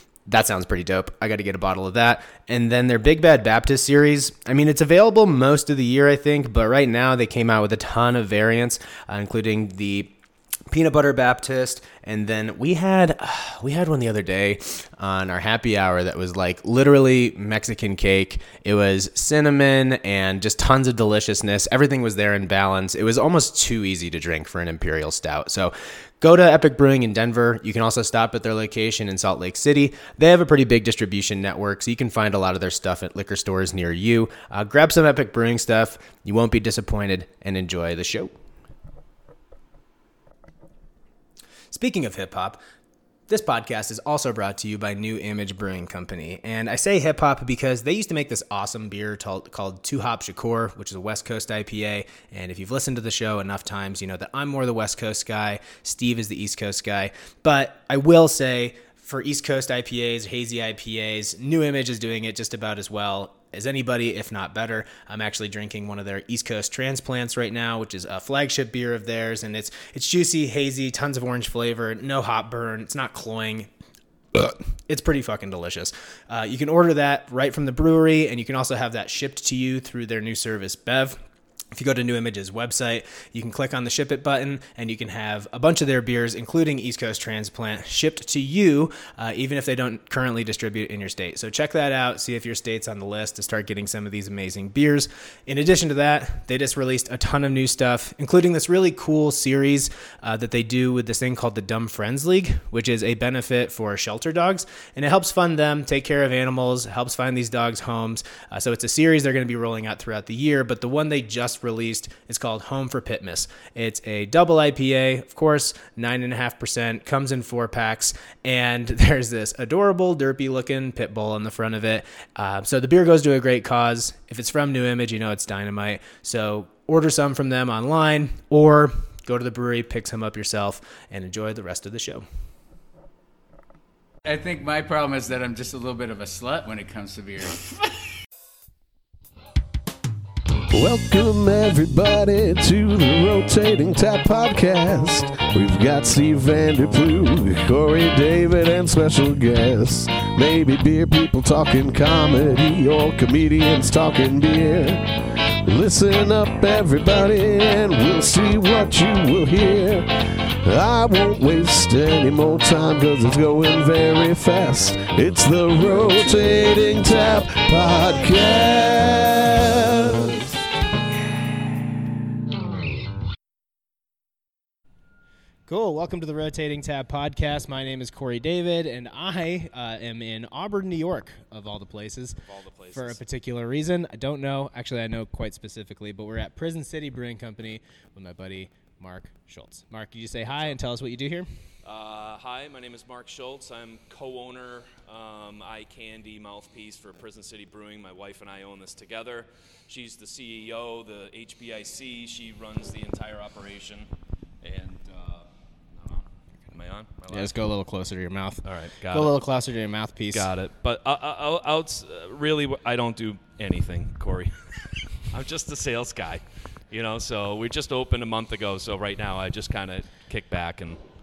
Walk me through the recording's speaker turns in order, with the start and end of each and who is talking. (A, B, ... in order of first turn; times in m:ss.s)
0:00.2-0:10.1 A
0:10.7-0:38.3 A
0:41.7-0:42.6 A
0:43.3-1:13.7 A
1:14.3-1:21.2 A
1:21.7-2:12.2 A
2:14.2-2:17.8 B
2:20.7-2:35.1 C
2:35.6-2:40.1 C
2:40.6-2:50.6 C
2:55.7-3:02.4 A
3:02.5-3:03.2 D
3:02.9-3:11.5 A
3:11.8-3:24.1 D
3:24.6-3:27.5 D
3:27.3-3:30.4 A
3:28.6-3:29.3 D
3:30.3-3:34.5 D
3:35.3-3:41.0 D